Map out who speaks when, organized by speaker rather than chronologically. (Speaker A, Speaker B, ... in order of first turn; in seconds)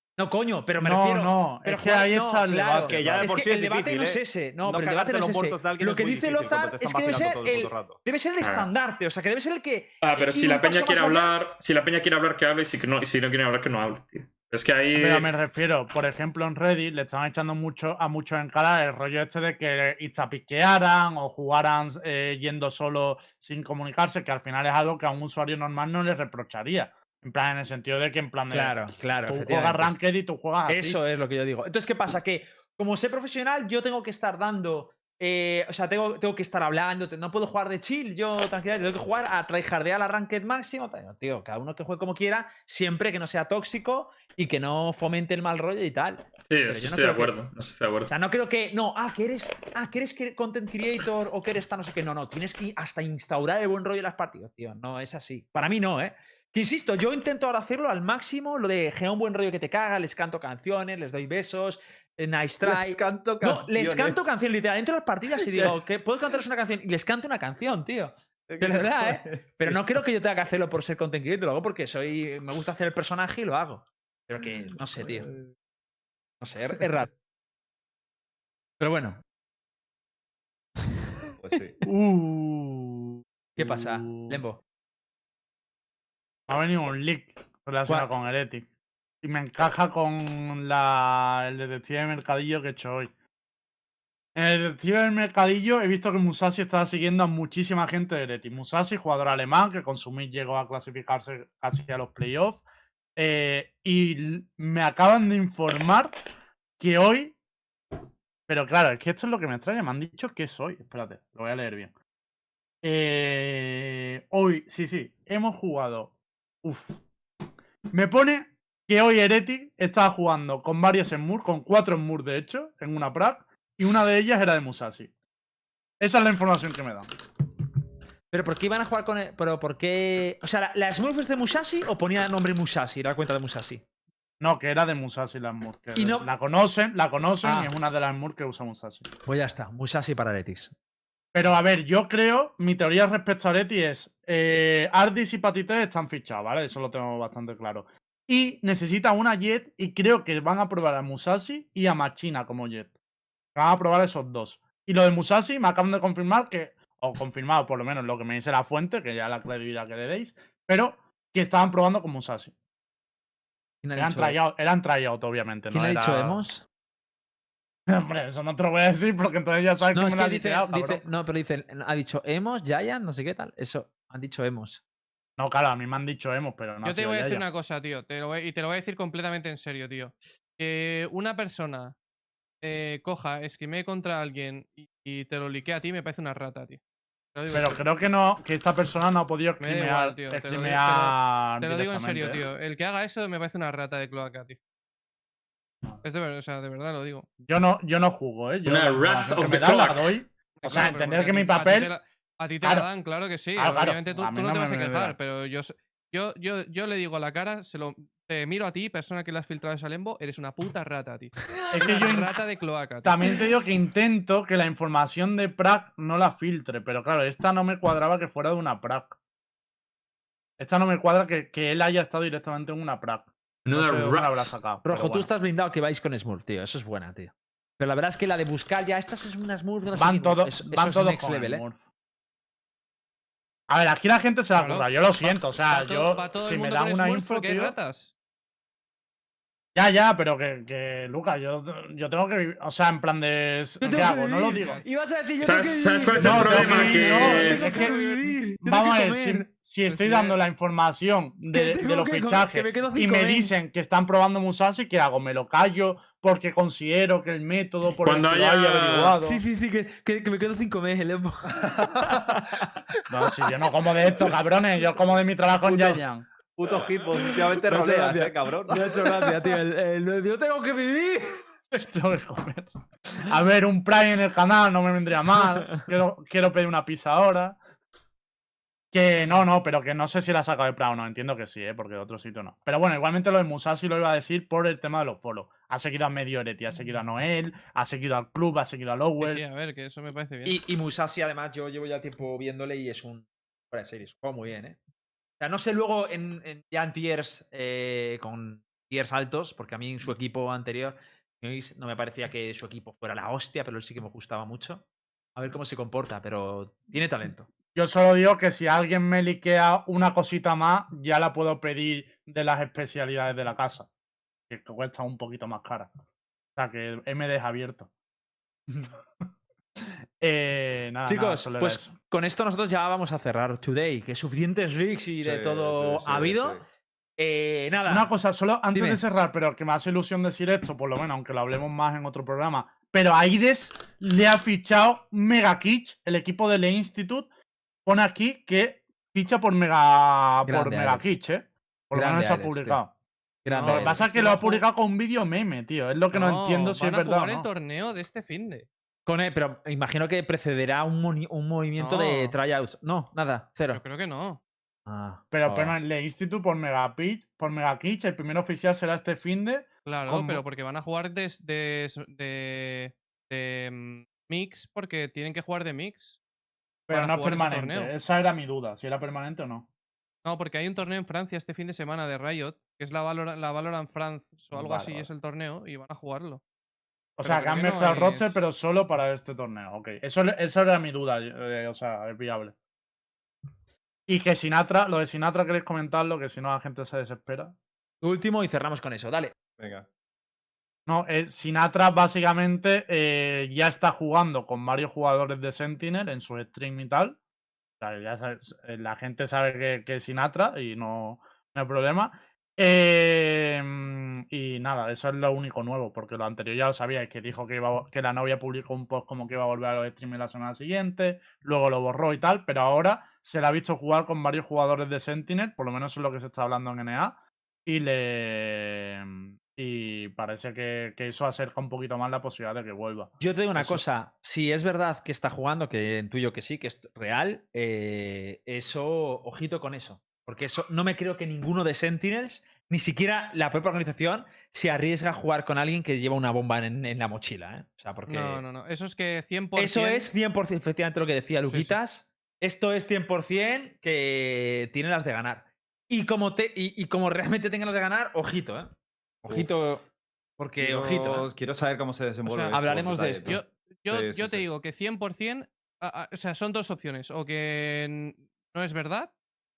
Speaker A: 0.2-11.4, 28.5-29.9, 30.7-47.4, 48.1-75.3, 76.4-77.1, 78.8-79.2, 83.6-84.6, 128.3-133.8, 136.0-136.3, 137.4-137.7, 139.2-140.7, 163.8-164.4, 165.7-166.7, 169.9-174.8, 211.6-211.9, 224.8-231.6, 243.8-250.3, 251.5-253.5, 259.2-262.7, 267.3-271.4, 290.4-294.8, 295.4-304.8, 305.4-307.5, 321.1-326.6, 327.2-328.1, 328.7-329.0, 340.5-341.2, 341.9-342.8, 343.4-344.0, 349.1-353.8, 354.9-355.8, 388.0-389.4, 423.2-438.4, 439.6-448.7, 449.2-449.9, 450.4-451.3, 452.5-453.4
Speaker B: 0.8-3.4, 14.9-31.0, 81.8-84.4, 86.5-88.7, 89.2-93.1, 94.3-102.6, 103.2-106.2, 106.8-107.3, 108.5-111.9, 112.8-116.1, 116.6-117.0, 117.9-125.1, 126.0-127.1, 134.4-139.1, 141.3-152.9, 153.6-162.5, 164.0-166.4, 167.9-171.0, 175.4-177.4, 187.5-192.4, 197.4-201.9, 202.6-202.9, 203.6-205.2, 211.7-212.4, 213.0-219.2, 220.6-225.3, 230.0-231.8, 233.7-237.7, 239.8-244.8, 246.2-259.4, 263.1-266.2, 271.7-277.6, 278.9-289.4, 307.8-313.9, 314.5-315.9, 316.6-317.9, 320.2-321.9, 327.9-337.3, 337.9-342.9, 343.7-347.5, 355.3-360.4, 366.9-369.7, 374.5-375.1, 377.2-382.5, 384.1-387.5, 390.9-397.2, 397.8-423.8
Speaker C: 2.8-8.0, 62.6-64.3, 65.3-65.8, 68.5-70.0, 75.0-75.5, 81.4-81.8, 261.7-262.3, 265.6-266.0, 266.6-269.4, 325.2-326.6, 389.6-389.9, 450.6-454.5
Speaker D: 8.4-8.7, 10.0-15.3, 46.5-48.1, 198.7-200.2, 223.7-224.5, 245.4-247.9, 258.0-259.2
Speaker E: 176.8-181.9, 182.6-186.8, 187.3-187.8, 189.6-194.6, 196.0-197.3, 200.6-213.3, 234.5-238.1, 289.2-290.6, 343.5-344.7, 346.1-348.7, 351.8-352.4, 353.7-354.4, 359.9-366.2, 366.9-367.9, 370.2-376.4, 377.2-378.4, 438.1-440.1, 441.5-441.8, 452.2-452.6, 453.2-459.1